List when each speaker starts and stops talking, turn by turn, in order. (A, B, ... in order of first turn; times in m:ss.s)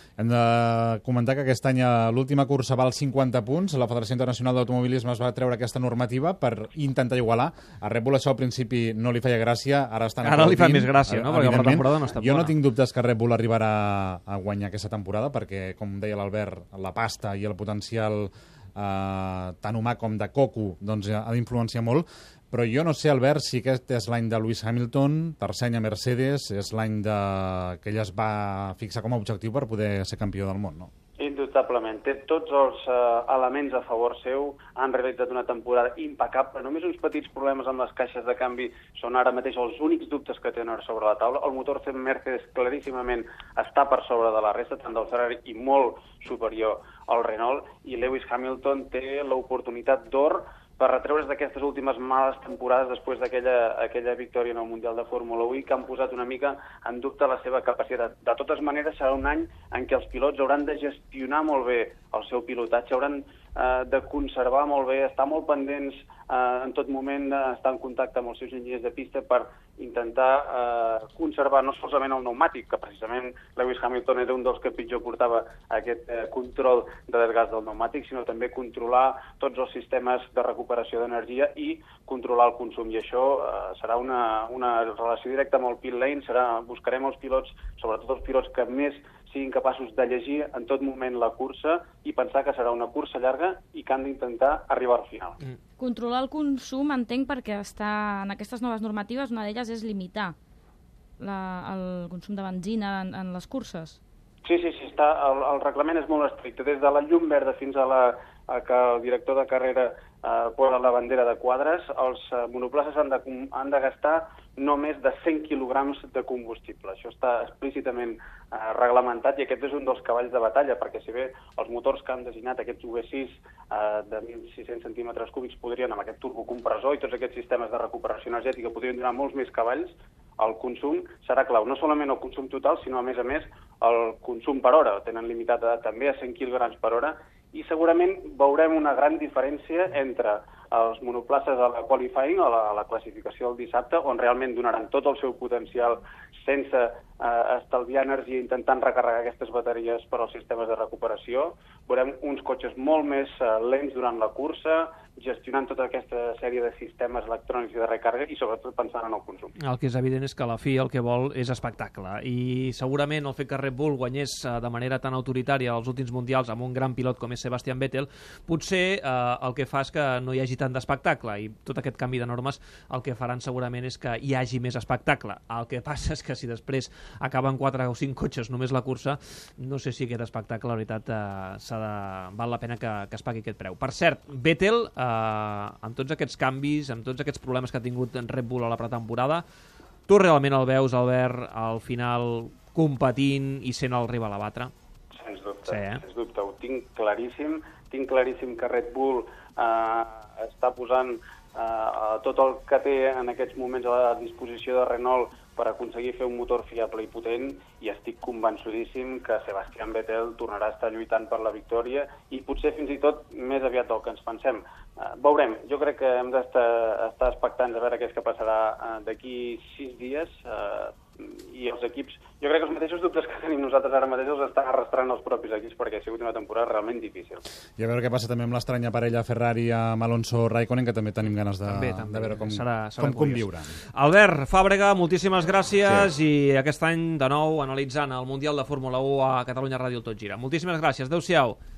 0:00.2-0:30.9 A
0:10.2-0:12.6 B
0:31.2-1:35.4 C
1:35.8-1:40.4 D
1:41.2-1:44.0 D
1:44.4-2:39.5 C
2:39.6-3:09.4 B
3:10.1-3:14.7 B
3:15.1-3:47.4 C
3:15.7-3:16.0 B
3:47.8-3:53.8 A
3:51.6-4:01.6 B